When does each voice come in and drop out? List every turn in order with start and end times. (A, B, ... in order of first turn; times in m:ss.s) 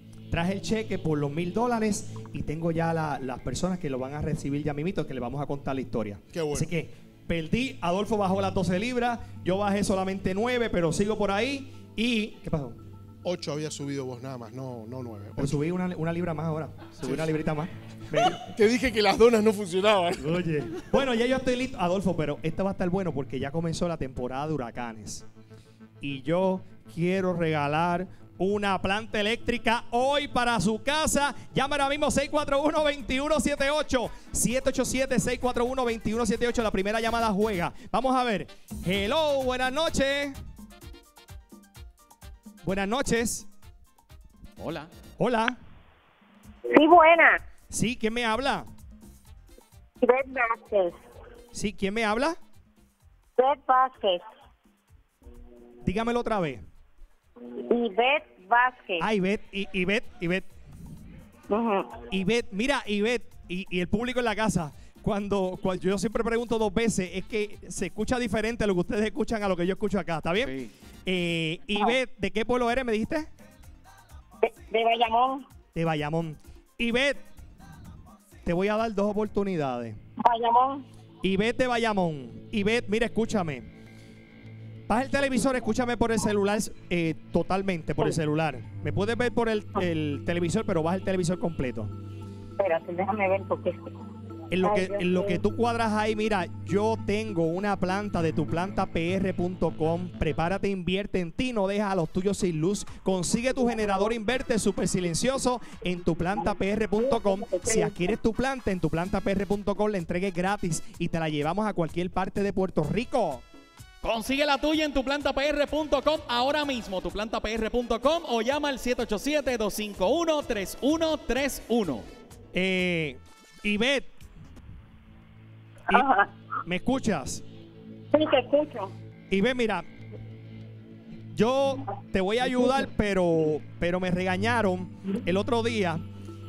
0:00.3-0:12.8 A
0:06.3-0:06.7 B
0:13.2-0:15.6 B
0:15.4-0:18.4 A
0:17.0-0:17.3 B
0:18.1-0:20.4 B
0:20.2-0:25.2 A
0:26.0-0:40.3 A
0:42.6-0:43.5 A
0:44.6-0:44.9 C
0:45.2-0:45.6 A
0:46.7-0:47.4 D
0:47.7-0:48.7 A
0:50.0-0:51.0 D
0:51.5-0:52.4 A
0:53.4-0:54.2 D
0:55.8-0:56.6 A
0:57.7-0:59.0 D
0:59.0-1:00.5 A
1:01.5-1:02.0 D
1:02.1-1:10.5 A
1:10.4-1:10.7 C
1:11.0-1:13.3 A
1:14.4-1:15.4 D
1:15.7-1:17.2 A
1:18.4-1:20.0 A
1:20.2-1:20.8 D
1:21.2-1:23.7 A
1:24.9-1:31.9 A
1:32.6-1:33.9 D
1:34.5-1:53.4 A
1:34.6-1:35.4 D
1:47.0-1:48.0 D
1:54.0-2:02.1 C
2:02.5-2:04.1 A
2:05.9-2:06.3 D
2:06.6-2:07.4 A
2:08.1-2:08.9 D
2:09.3-2:09.8 A
2:11.3-2:16.0 A